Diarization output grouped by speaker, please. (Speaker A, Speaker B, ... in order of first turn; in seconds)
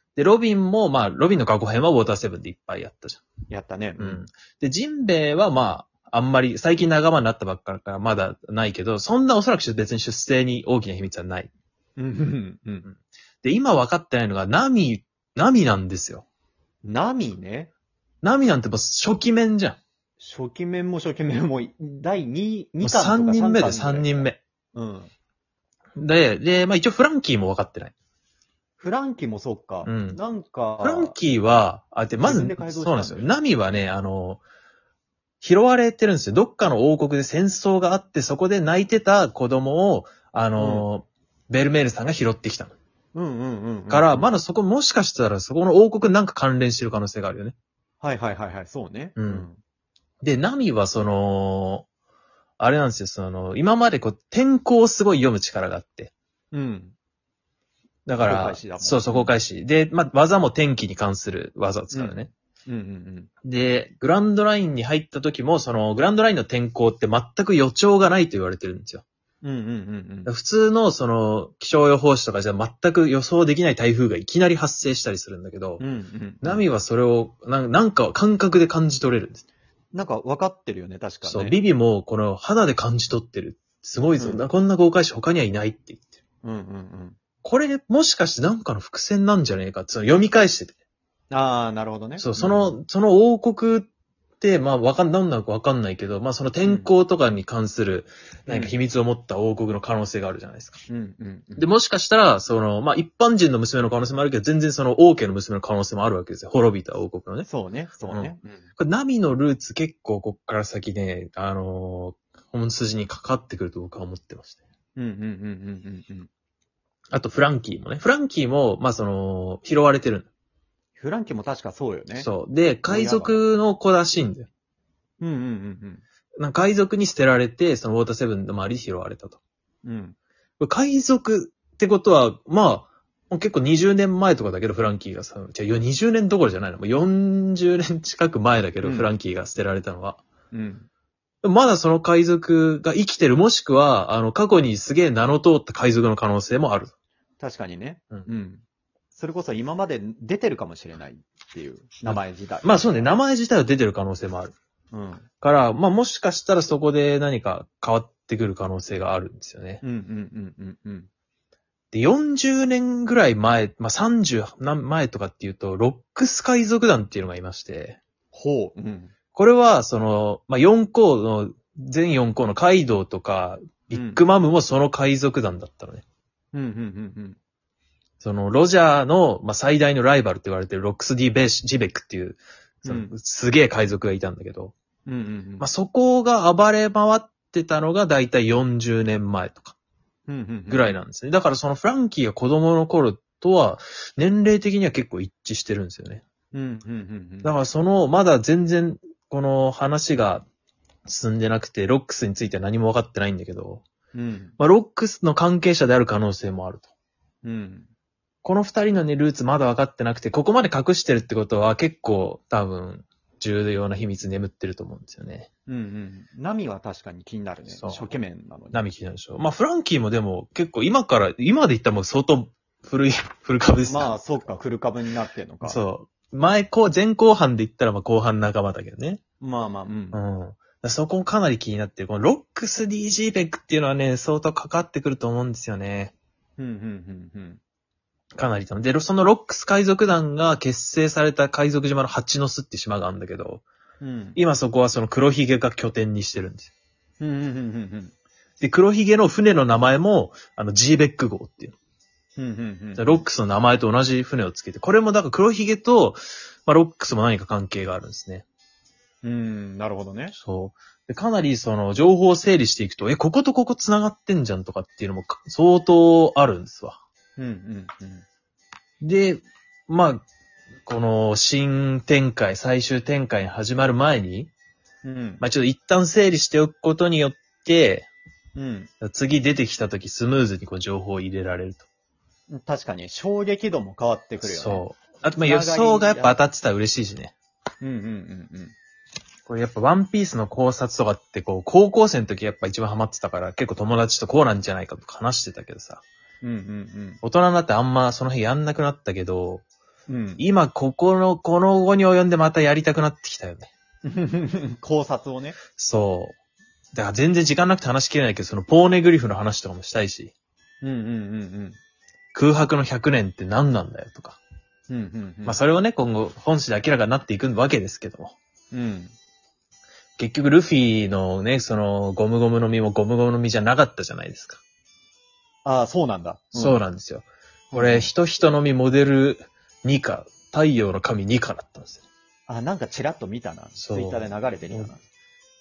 Speaker A: 0.1-3.2, 4.0-11.5, 12.9-16.2, 18.2-19.8, 22.8-24.4, 26.0-27.9, 29.8-30.2, 30.8-34.4, 35.4-42.7, 43.9-47.5, 49.1-49.5, 50.2-51.9, 52.6-56.1, 58.0-62.3, 63.4-69.0, 70.2-75.8, 76.4-79.4, 81.2-86.1, 87.4-90.7, 92.2-93.9, 94.4-100.8, 101.6-107.5, 108.1-114.6, 117.1-120.3, 122.1-124.5, 126.4-129.4, 130.6-140.2, 141.4-146.9, 152.1-154.5, 155.4-159.8, 161.9-168.0, 169.3-176.0, 178.2-184.7, 185.6-189.8, 190.7-196.2, 197.4-200.4, 201.1-203.8, 204.6-206.9, 208.4-215.5, 217.7-218.0, 218.7-224.1, 225.6-229.2, 230.1-236.1, 238.3-243.6, 244.3-246.7, 248.6-251.7, 253.0-258.4, 260.3-267.0, 269.0-270.2, 270.9-274.5, 275.4-278.1, 279.0-281.9, 284.4-287.3, 289.5-296.0, 297.2-299.6, 300.4-303.7, 305.8-306.4, 306.9-310.3, 312.3-314.4, 315.4-318.3, 320.2-324.6, 326.5-332.0, 333.8-334.9
Speaker B: 3.5-4.2, 12.0-12.9, 16.8-17.7, 20.2-25.1, 28.8-31.1, 32.1-33.3, 40.6-40.9, 43.1-44.3, 48.0-49.6, 56.5-56.9, 58.2-59.3, 61.9-63.3, 69.4-70.3, 75.8-76.7, 79.9-81.6, 84.2-84.4, 86.4-87.2, 91.3-92.8, 98.5-98.7, 100.9-101.7, 107.5-108.6, 115.0-116.3, 121.0-122.3, 122.9-123.4, 125.2-126.0, 129.8-130.1, 138.8-139.1, 140.5-140.9, 147.4-153.1, 154.9-155.2, 159.8-161.1, 168.3-169.1, 173.9-174.2, 176.5-177.4, 182.8-183.1, 185.1-185.7, 190.3-191.0, 196.5-197.5, 204.1-204.5, 207.4-207.9, 215.7-218.8, 223.9-225.8, 229.4-230.2, 236.6-237.6, 244.0-244.4, 247.2-248.1, 252.4-253.2, 259.2-260.3, 267.4-268.2, 275.0-275.4, 278.5-278.9, 282.5-284.8, 285.3-286.4, 287.8-288.7, 296.4-297.2, 300.1-300.4, 304.0-305.6, 310.8-311.8, 314.9-315.6, 318.7-319.1, 325.6-326.8, 327.7-328.1, 332.5-335.0